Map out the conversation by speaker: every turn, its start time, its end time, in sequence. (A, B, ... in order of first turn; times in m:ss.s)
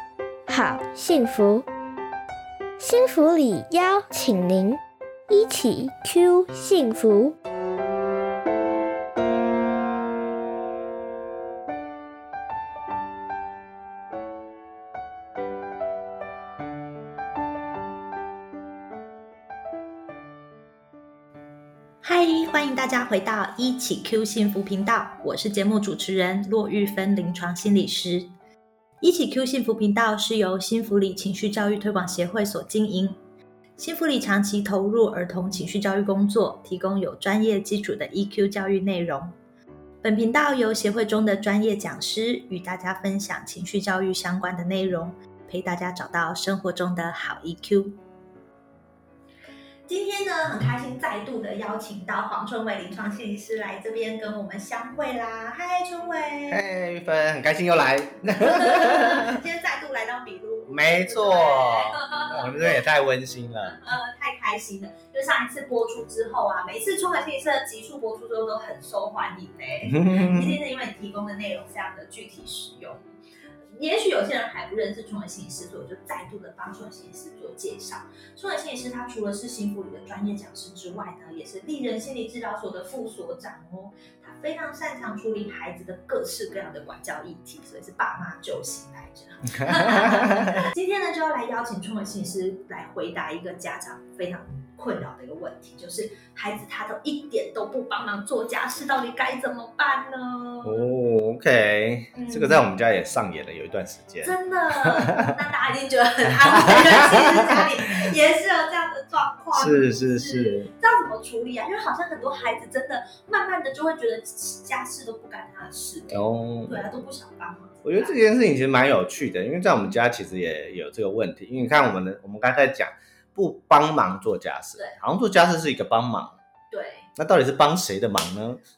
0:00.5-0:01.7 A
0:02.8-0:07.4 A
0:22.0-0:28.3 B
0:29.0-0:33.2 B
0:33.8-0:39.4 B
0:40.0-0:48.0 B
0:49.9-0:56.6 B
0:56.5-0:59.4 C
0:58.3-1:02.8 B
1:00.7-1:03.8 C
1:03.6-1:13.0 B
1:09.8-1:10.6 C
1:13.7-1:40.9 B
1:29.7-1:30.6 C
1:40.6-1:45.3 C
1:42.1-1:42.7 B
1:44.2-1:58.2 B
1:46.3-1:47.6 C
1:49.5-1:50.7 C
1:56.1-1:56.9 C
1:57.8-2:06.4 C
2:06.7-2:07.1 B
2:07.2-2:08.6 C